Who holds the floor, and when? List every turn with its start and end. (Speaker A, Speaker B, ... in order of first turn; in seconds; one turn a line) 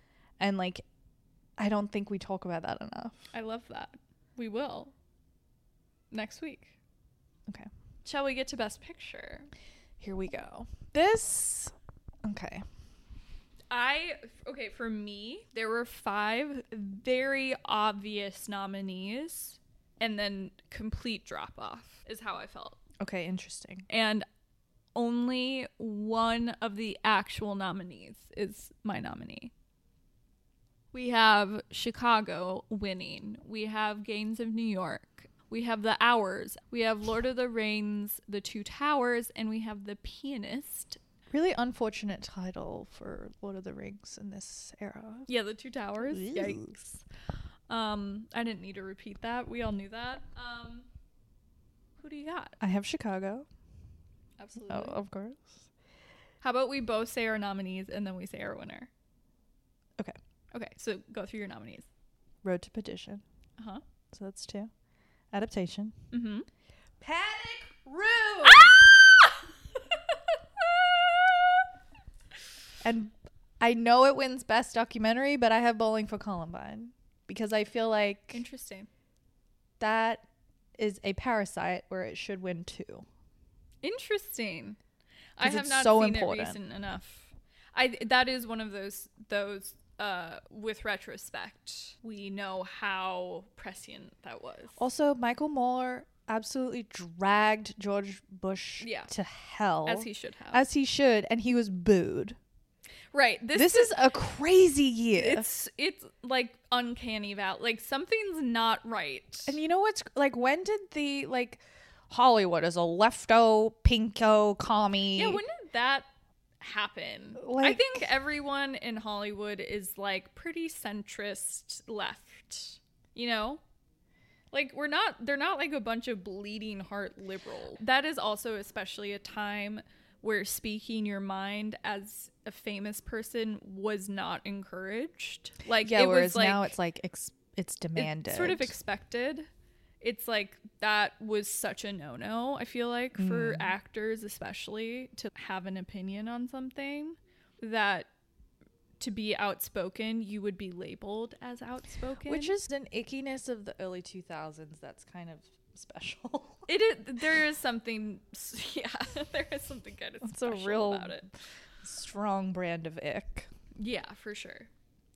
Speaker A: 0.4-0.8
Speaker A: 1.6-3.3
Speaker B: 3.3-4.9
Speaker B: 6.1-6.8
Speaker B: 8.1-9.5
Speaker A: 10.0-12.7
Speaker B: 13.7-22.8
Speaker A: 23.0-23.9
Speaker B: 23.9-24.3
Speaker B: 24.9-29.5
Speaker B: 30.9-41.0
Speaker A: 41.3-45.3
Speaker B: 45.3-47.0
Speaker A: 46.1-46.7
Speaker B: 47.7-50.9
Speaker B: 52.0-52.6
Speaker A: 52.6-53.5
Speaker B: 54.4-55.0
Speaker A: 54.6-55.7
Speaker B: 56.4-58.9
Speaker B: 60.5-61.9
Speaker A: 62.4-63.2
Speaker B: 63.6-63.8
Speaker A: 64.1-64.7
Speaker A: 65.3-66.0
Speaker B: 66.1-66.5
Speaker A: 67.0-68.9
Speaker B: 68.4-68.9
Speaker A: 72.8-78.5
Speaker B: 78.3-78.9
Speaker A: 79.8-80.3
Speaker A: 80.8-83.1
Speaker B: 83.8-84.8
Speaker B: 85.4-94.8
Speaker A: 85.4-86.6
Speaker A: 94.8-102.4
Speaker B: 98.8-99.1
Speaker B: 99.9-100.6
Speaker B: 103.1-104.0
Speaker A: 103.5-105.5
Speaker B: 105.2-109.6
Speaker A: 109.5-115.4
Speaker B: 115.1-116.1
Speaker B: 116.6-123.6
Speaker A: 117.4-118.1
Speaker B: 124.5-136.7
Speaker A: 135.8-138.7
Speaker B: 138.0-139.5
Speaker B: 140.0-148.1
Speaker A: 143.2-143.7
Speaker B: 149.0-152.6
Speaker A: 152.2-156.7
Speaker B: 156.7-161.3
Speaker A: 160.2-161.3
Speaker A: 161.8-163.5
Speaker B: 163.8-164.7